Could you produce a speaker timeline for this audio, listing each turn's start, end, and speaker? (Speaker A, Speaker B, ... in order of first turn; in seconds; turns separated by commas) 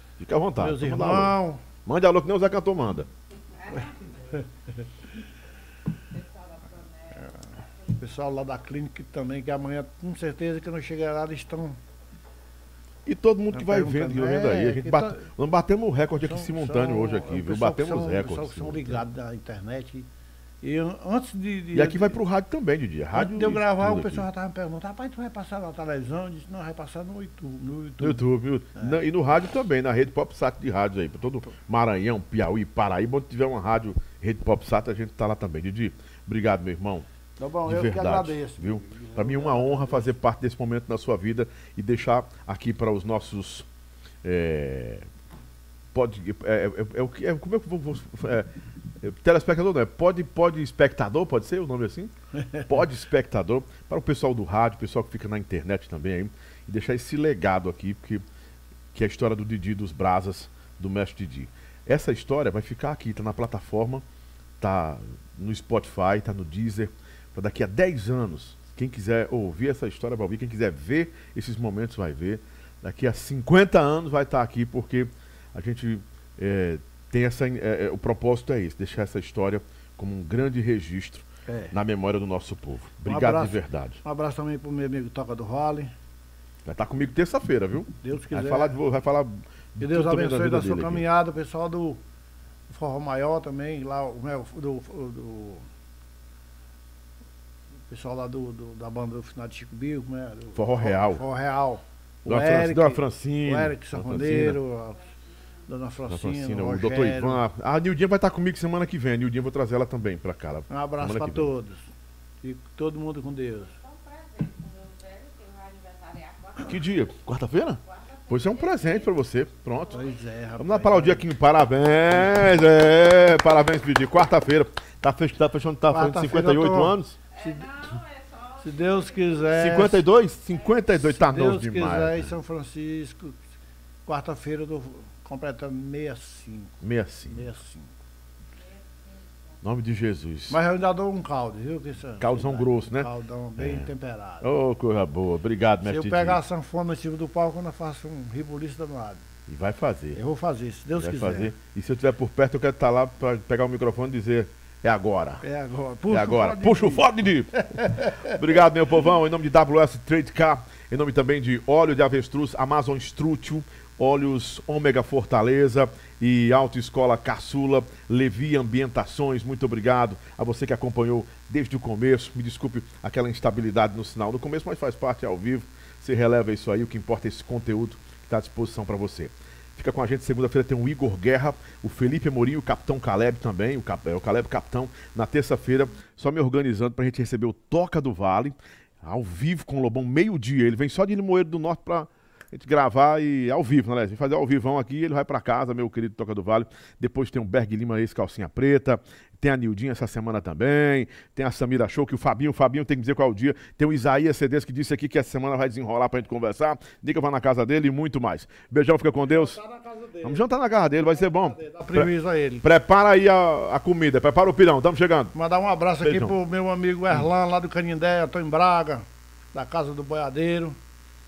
Speaker A: 0.2-3.1, Speaker B: 0.6-1.6, Speaker C: 3.6-4.4, Speaker C: 6.1-7.3, Speaker B: 8.0-11.8, Speaker A: 13.1-19.0, Speaker B: 13.5-15.3, Speaker B: 16.2-20.1, Speaker B: 20.6-22.2, Speaker A: 21.7-24.3, Speaker B: 23.1-29.0, Speaker A: 28.0-37.1, Speaker B: 37.4-40.1, Speaker A: 37.7-43.7, Speaker A: 44.2-45.1, Speaker A: 45.9-48.5, Speaker A: 49.0-52.1, Speaker B: 52.4-52.7, Speaker A: 52.7-58.2, Speaker A: 58.9-64.0, Speaker A: 64.6-84.0, Speaker B: 81.5-81.8, Speaker B: 83.0-85.9, Speaker A: 86.7-91.1, Speaker B: 88.0-88.8, Speaker B: 89.8-92.0, Speaker B: 92.7-95.7, Speaker B: 97.9-105.0, Speaker A: 100.5-101.2, Speaker A: 102.2-104.6, Speaker B: 105.7-107.4, Speaker A: 106.1-111.5, Speaker B: 110.7-111.9, Speaker B: 112.4-113.8, Speaker C: 113.8-117.1, Speaker A: 116.6-127.2, Speaker C: 117.8-119.2, Speaker B: 119.9-121.3, Speaker B: 125.9-127.8, Speaker C: 127.3-129.5, Speaker B: 128.6-130.1, Speaker A: 129.5-132.3, Speaker C: 130.5-130.8, Speaker B: 131.0-133.4, Speaker B: 134.1-137.9, Speaker A: 136.8-137.4, Speaker C: 138.6-139.6, Speaker A: 139.6-140.6, Speaker B: 140.5-144.5, Speaker A: 142.2-143.9, Speaker A: 144.4-146.4, Speaker B: 145.8-149.2, Speaker A: 149.5-150.2, Speaker B: 150.2-151.5, Speaker A: 150.9-155.4, Speaker B: 155.4-158.4, Speaker A: 156.1-209.6, Speaker B: 209.2-212.7, Speaker A: 210.2-212.1, Speaker A: 212.6-215.3, Speaker B: 215.3-220.8, Speaker A: 216.0-216.3